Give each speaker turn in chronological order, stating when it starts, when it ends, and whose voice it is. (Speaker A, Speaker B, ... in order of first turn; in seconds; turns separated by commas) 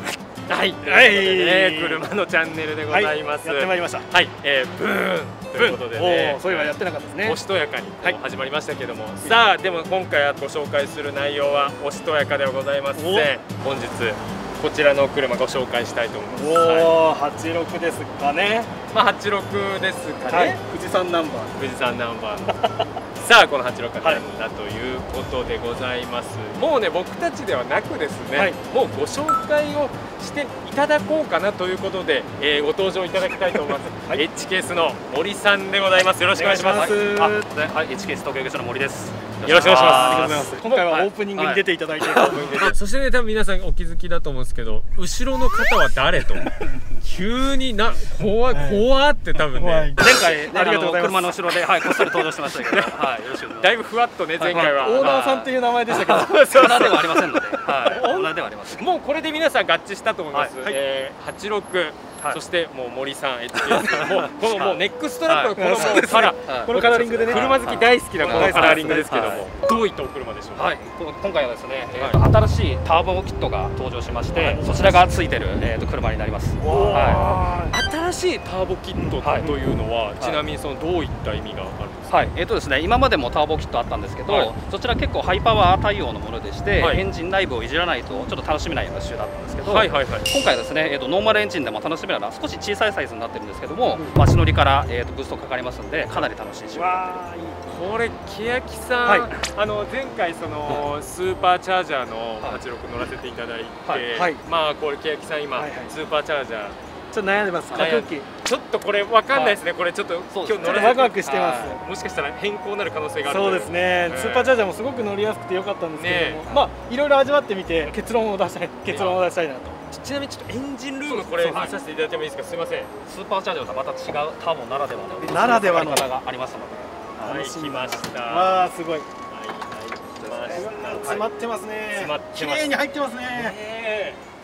Speaker A: 0.5-17.0, Speaker B: 0.8-2.1, Speaker B: 2.9-4.1, Speaker B: 5.5-7.4, Speaker B: 12.9-13.3, Speaker B: 16.3-18.7, Speaker A: 18.9-20.6, Speaker B: 20.3-21.5, Speaker A: 21.6-22.6, Speaker A: 23.2-37.0, Speaker B: 28.3-28.6, Speaker B: 34.0-34.2, Speaker B: 36.3-37.4, Speaker C: 36.7-42.8, Speaker A: 39.4-41.0, Speaker B: 39.6-42.6, Speaker A: 42.1-49.9, Speaker B: 48.5-48.9, Speaker B: 49.5-51.4, Speaker C: 50.0-53.7, Speaker A: 51.8-55.2, Speaker C: 54.4-58.9, Speaker B: 54.5-57.4, Speaker A: 56.1-70.7, Speaker C: 63.5-69.5, Speaker B: 65.6-67.5, Speaker B: 68.2-69.4, Speaker C: 70.5-77.3, Speaker A: 71.9-72.2, Speaker A: 74.3-74.7, Speaker B: 76.6-77.8, Speaker A: 76.7-82.3, Speaker B: 78.9-79.2, Speaker C: 79.2-79.5, Speaker C: 82.1-97.2, Speaker A: 89.6-90.3, Speaker B: 96.8-97.6, Speaker A: 97.7-106.8, Speaker B: 99.0-99.3, Speaker B: 104.1-104.4, Speaker B: 105.5-105.9, Speaker B: 107.1-108.3, Speaker C: 107.7-108.0, Speaker A: 107.7-114.6, Speaker C: 109.3-109.6, Speaker C: 110.3-111.8, Speaker B: 110.6-111.8, Speaker B: 113.2-119.8, Speaker A: 115.9-116.4, Speaker C: 116.4-116.7, Speaker A: 118.9-119.2, Speaker A: 119.9-122.9, Speaker C: 121.0-121.8, Speaker C: 123.0-127.3, Speaker B: 125.3-126.1, Speaker B: 127.2-129.1, Speaker A: 127.2-128.7, Speaker A: 129.3-131.2, Speaker C: 130.2-131.2, Speaker B: 130.5-133.6, Speaker A: 131.9-132.7, Speaker A: 133.3-134.2